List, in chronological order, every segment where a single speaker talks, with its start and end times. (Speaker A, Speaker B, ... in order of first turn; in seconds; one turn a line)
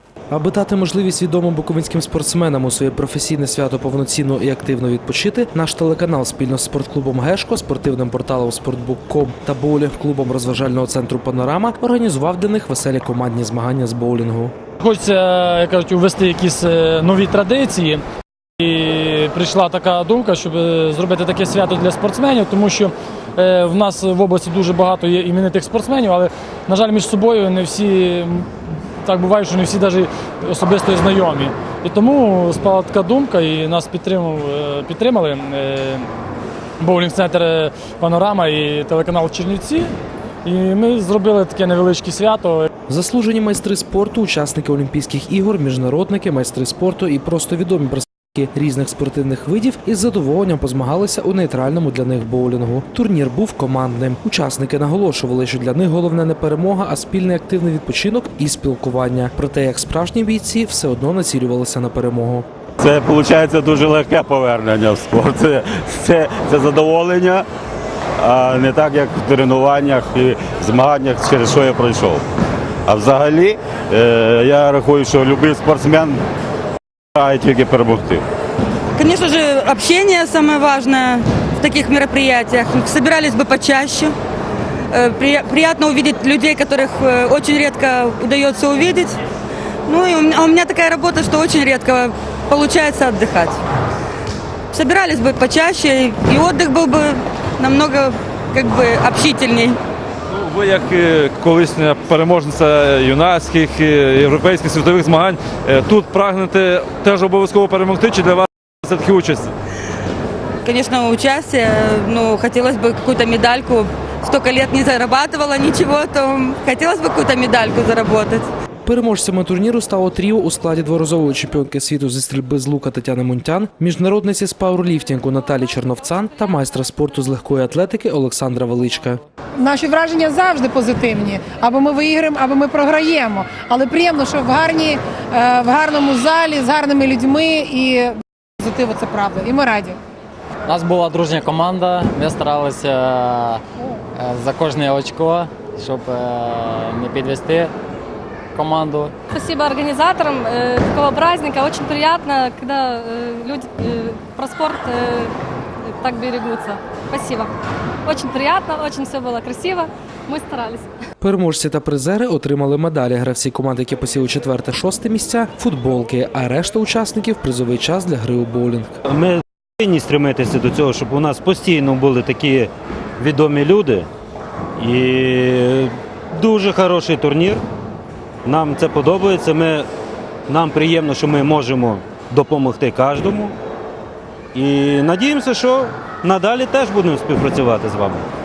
Speaker A: 0.3-14.5
Speaker B: 14.8-18.0
Speaker B: 18.6-28.5
Speaker B: 29.0-36.1
Speaker B: 36.8-39.9
Speaker B: 40.4-42.7
Speaker A: 42.9-62.5
Speaker C: 62.8-67.5
Speaker C: 68.2-72.2
Speaker C: 72.9-76.2
Speaker C: 77.2-78.2
Speaker D: 79.0-84.1
Speaker D: 84.9-89.2
Speaker D: 89.9-93.6
Speaker D: 94.7-99.8
Speaker E: 100.3-109.5
Speaker D: 110.6-118.5
Speaker A: 118.8-129.2
Speaker F: 129.6-140.0
Speaker G: 140.7-143.6
Speaker G: 144.2-147.7
Speaker G: 148.5-149.2
Speaker H: 149.3-157.5
Speaker H: 158.0-160.9
Speaker A: 161.2-169.0
Speaker I: 169.1-174.1
Speaker I: 174.8-177.6
Speaker I: 178.4-179.9
Speaker I: 180.5-183.5
Speaker I: 184.5-188.2